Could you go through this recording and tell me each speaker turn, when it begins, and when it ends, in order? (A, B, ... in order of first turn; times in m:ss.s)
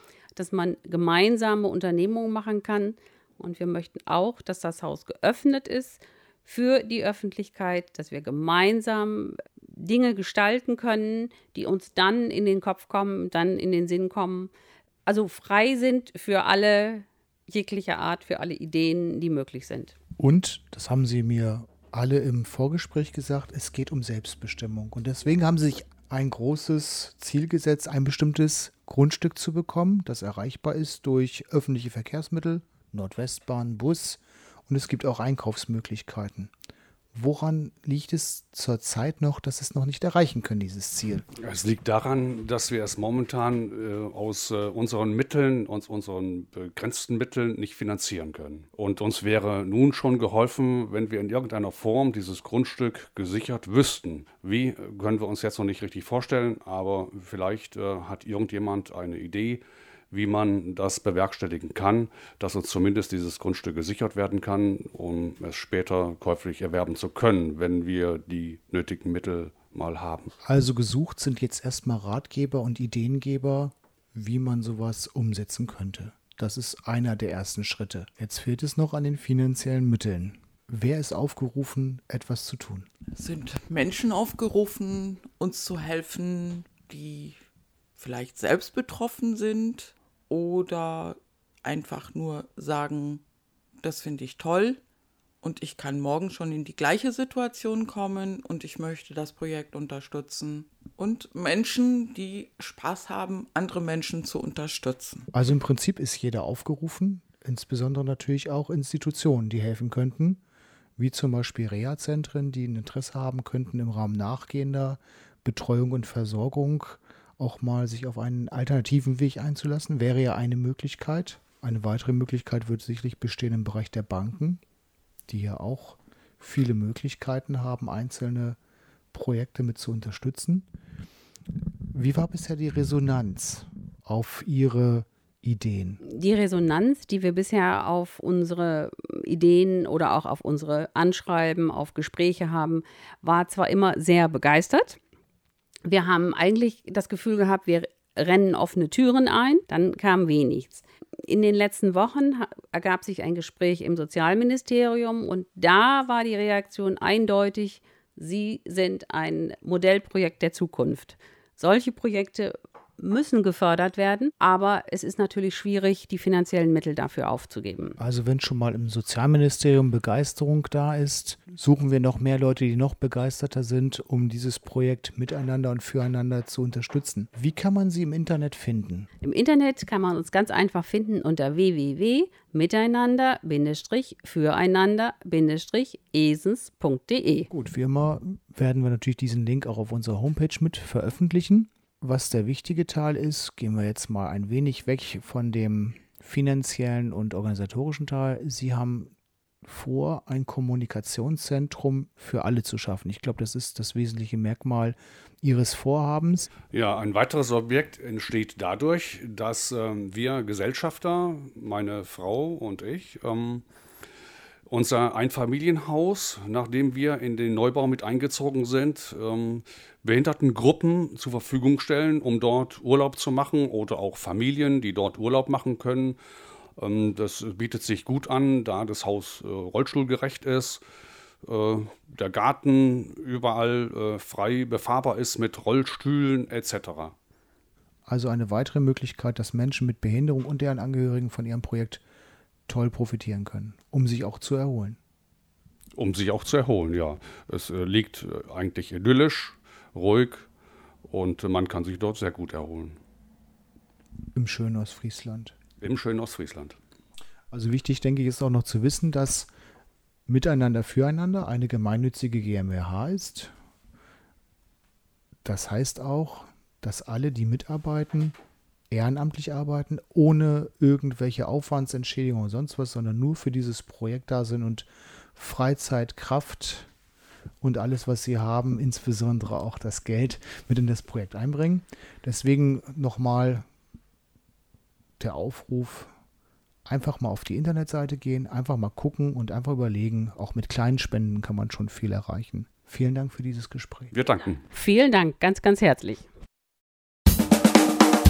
0:00.3-0:14.5 A
0:15.1-0:20.0 A
0:20.2-0:36.5 B
0:37.1-0:41.3 B
0:41.4-1:10.3 C
1:10.4-1:22.9 B
1:23.2-1:27.4 D
1:28.0-1:33.2 D
1:33.8-1:34.8 D
1:35.4-1:45.3 D
1:45.3-1:50.4 B
1:51.0-2:04.6 B
2:05.3-2:08.6 B
2:09.1-2:10.7 B
2:11.9-2:16.0 B
2:16.0-2:25.0 A
2:25.8-2:48.0 A
2:48.0-2:59.1 B
2:59.2-3:07.5 A
3:07.5-3:26.5 B
3:26.7-3:33.6 C
3:34.7-3:46.2 C
3:46.8-3:50.8 C
3:51.5-3:57.2 C
3:58.1-4:02.0 B
4:02.7-4:05.0 B
4:06.0-4:10.5 C
4:11.1-4:13.0 C
4:14.3-4:15.5 B
4:15.8-4:16.8 C
4:17.5-4:19.5 B
4:20.3-4:23.5 B
4:25.4-4:28.3 B
4:28.9-4:36.9 B
4:37.6-4:43.6 B
4:45.2-4:46.1 B
4:46.9-4:54.1 B
4:54.1-4:54.6 C
4:54.7-4:56.3 A